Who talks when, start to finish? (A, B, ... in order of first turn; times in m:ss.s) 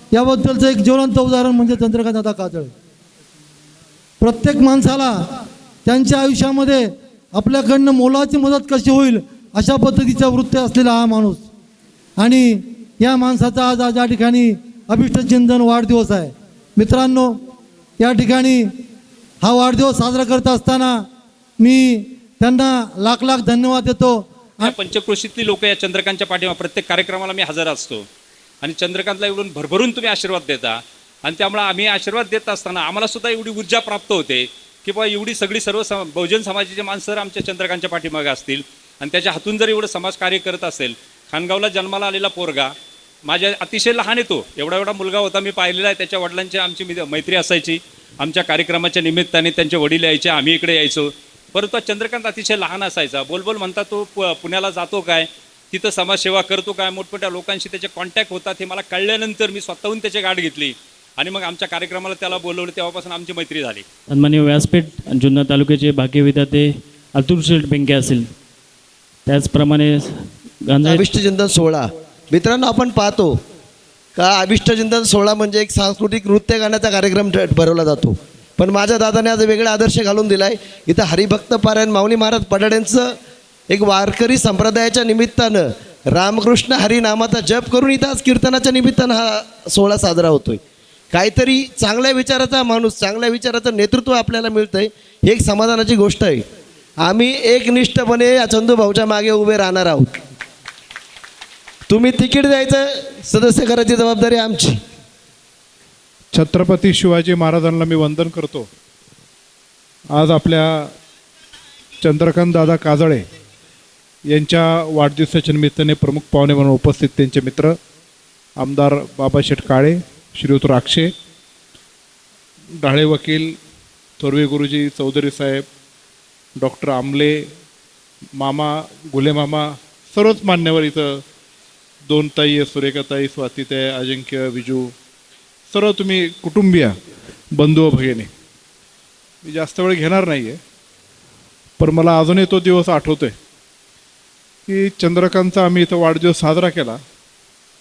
0:00.3-0:02.2 A
0:00.4-0:02.7 B
0:04.2-0:05.1 B
0:04.7-0:05.0 A
0:05.8-0:06.8 B
0:06.0-0:06.3 A
0:07.4-0:11.4 B
0:13.0-0:17.2 B
0:13.4-0:16.0 A
0:16.9-0:17.2 A
0:18.1-0:18.5 A
0:19.5-0:20.8 A
0:19.7-0:20.8 B
0:23.0-0:24.0 B
0:23.3-0:24.0 A
0:24.6-0:28.0 A
0:28.6-0:42.7 A
0:43.3-1:03.8 A
1:04.1-1:08.2 C
1:09.3-1:10.1 C
1:10.7-1:11.0 C
1:10.8-1:13.4 D
1:14.2-1:23.1 D
1:23.7-1:30.6 D
1:31.1-1:36.4 D
1:37.0-1:40.1 D
1:41.9-1:44.8 D
1:46.3-1:48.7 E
1:50.1-1:50.9 E
1:52.0-1:53.2 E
1:54.3-1:57.8 E
1:58.6-2:01.1 E
2:02.8-2:03.6 E
2:04.2-2:05.6 E
2:06.6-2:07.4 E
2:08.4-2:11.2 E
2:12.1-2:14.9 E
2:15.7-2:16.9 E
2:17.6-2:18.3 E
2:19.4-2:20.6 E
2:21.8-2:23.3 E
2:24.7-2:27.0 E